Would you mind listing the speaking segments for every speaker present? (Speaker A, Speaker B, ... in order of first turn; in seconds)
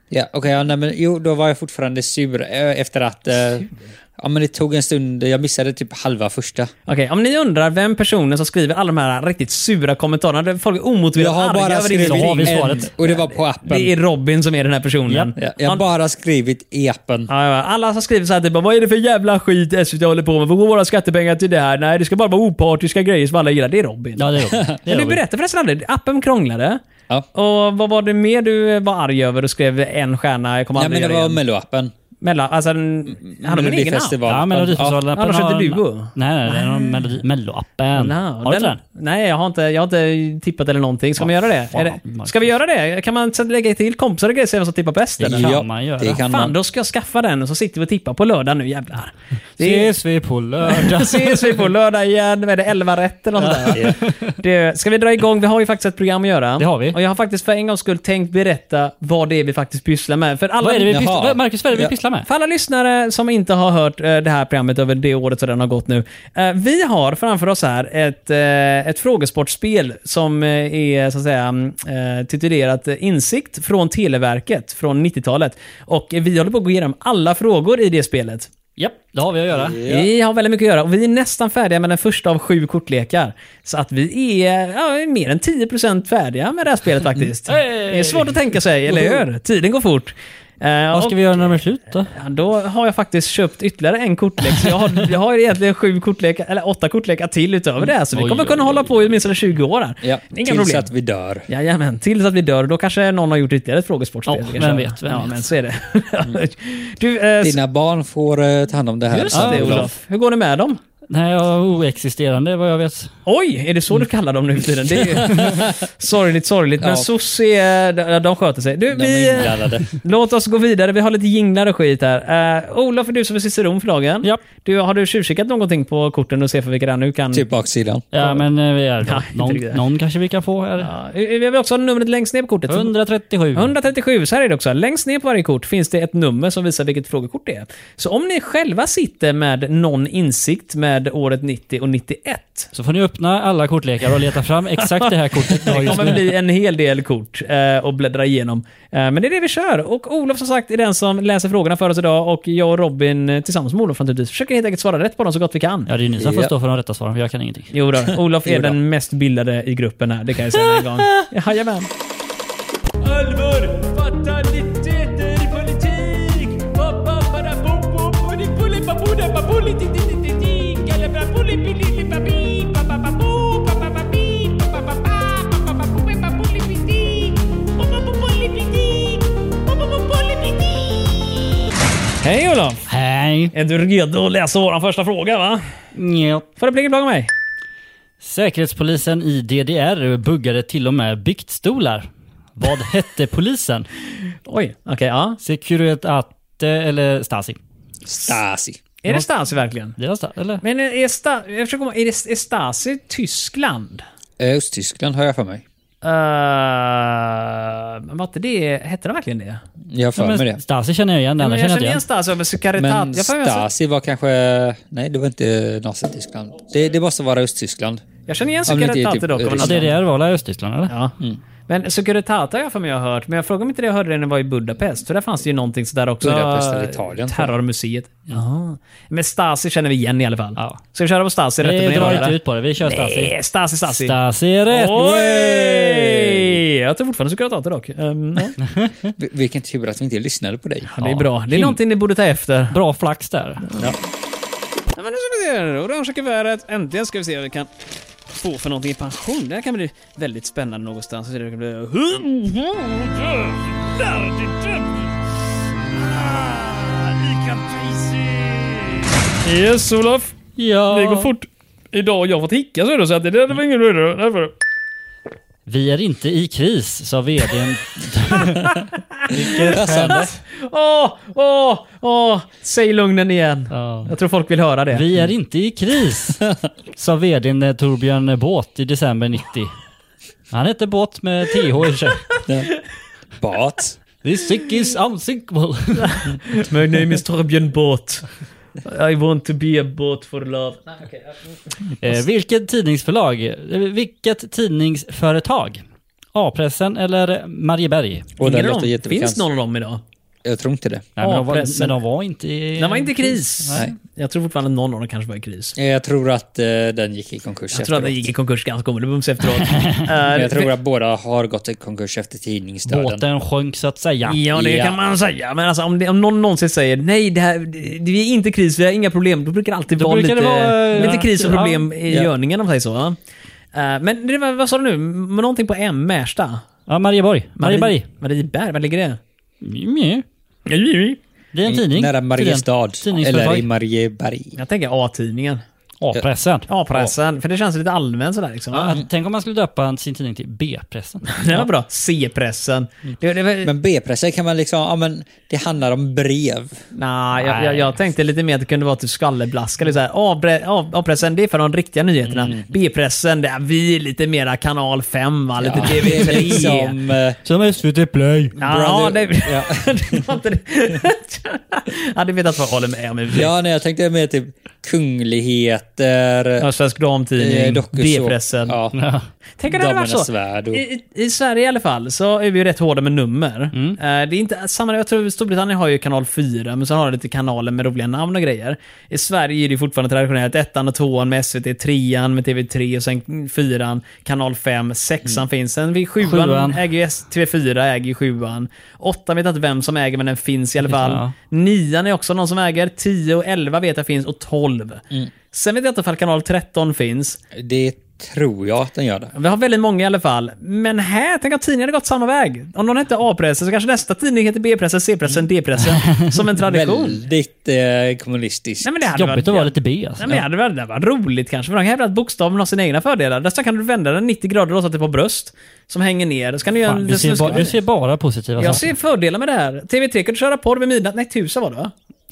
Speaker A: 0.1-6.7, 11.2-13.9, 15.4-17.3, 30.7-31.9, 33.4-35.0, 45.2-46.5, 53.7-54.0, 60.9-61.9, 79.5-80.1, 100.0-101.5, 107.4-109.9, 115.2-115.7, 116.8-117.1, 118.9-119.8, 127.3-128.0, 156.2-156.5, 158.4-158.8, 198.1-198.8, 204.4-205.6, 209.9-210.6, 212.8-218.0, 218.7-219.9, 226.2-227.5, 234.9-236.6, 239.2-240.9, 269.3-270.3, 283.4-284.0, 298.4-299.4, 300.4-301.1, 305.7-308.3, 310.2-313.2, 314.5-315.0, 331.6-334.6, 343.6-346.8, 352.3-352.7, 355.6-357.4, 358.6-360.2, 363.3-366.7, 367.4-369.0, 369.7-370.8, 397.5-399.3, 406.6-408.9
Speaker B: 6.9-15.8, 17.3-24.2, 24.8-26.8, 27.3-31.4, 32.2-34.1, 35.1-36.9, 37.9-45.6, 46.2-49.9, 50.6-61.0, 62.2-78.5, 79.8-91.5, 92.1-100.9, 101.5-107.6, 109.1-110.8, 113.2-127.5, 129.0-129.8, 130.8-132.9, 133.5-142.7, 144.8-155.9, 157.7-161.9, 163.0-181.2, 182.2-182.8, 183.5-185.6, 186.6-187.3, 194.5-195.4, 199.0-199.9, 200.6-204.0, 206.0-209.6, 211.4-213.7, 218.3-219.9, 220.9-221.1, 221.7-234.1, 234.7-238.6, 240.9-242.8, 244.9-247.7, 248.4-255.1, 255.9-264.5, 268.4-275.0, 286.1-288.2, 288.8-291.6, 298.4-300.0, 301.2-302.0, 302.8-305.7, 307.7-310.7, 314.2-323.2, 323.7-326.6, 327.6-329.2, 330.6-331.2, 334.6-335.6, 336.7-339.0, 341.3-343.7, 346.9-356.9, 358.6-363.5, 366.6-368.8, 369.6-397.4, 399.3-407.2, 408.8-417.8, 418.6-421.9
Speaker C: 12.1-12.9, 24.1-25.2, 34.2-38.8, 41.2-42.5, 45.2-46.2, 49.6-51.6, 53.4-54.3, 56.6-57.0, 60.6-62.3, 78.8-79.8, 87.5-88.4, 90.9-92.1, 98.1-99.1, 104.3-105.4, 109.3-109.9, 111.1-113.1, 128.1-130.9, 132.7-133.7, 142.7-146.3, 155.9-157.7, 182.9-183.5, 185.9-186.4, 188.2-193.9, 195.4-197.6, 200.0-200.6, 210.2-212.0, 219.6-220.9, 231.6-233.3, 233.9-235.1, 238.7-238.9, 241.0-241.8, 242.7-243.7, 260.6-261.3, 265.6-270.4, 273.7-274.1, 274.9-276.4, 276.9-279.7, 280.5-282.3, 284.2-286.3, 292.0-295.8, 296.3-298.3, 301.2-303.8, 309.7-310.0, 312.9-314.4, 319.9-321.8, 326.9-328.0, 329.6-330.2, 331.5-333.6, 336.0-336.7, 338.7-341.6, 347.4-347.9, 357.4-358.6, 368.9-369.2, 373.7-374.0, 386.2-386.8, 390.8-391.3, 406.0-406.3, 409.1-410.4, 416.8-418.9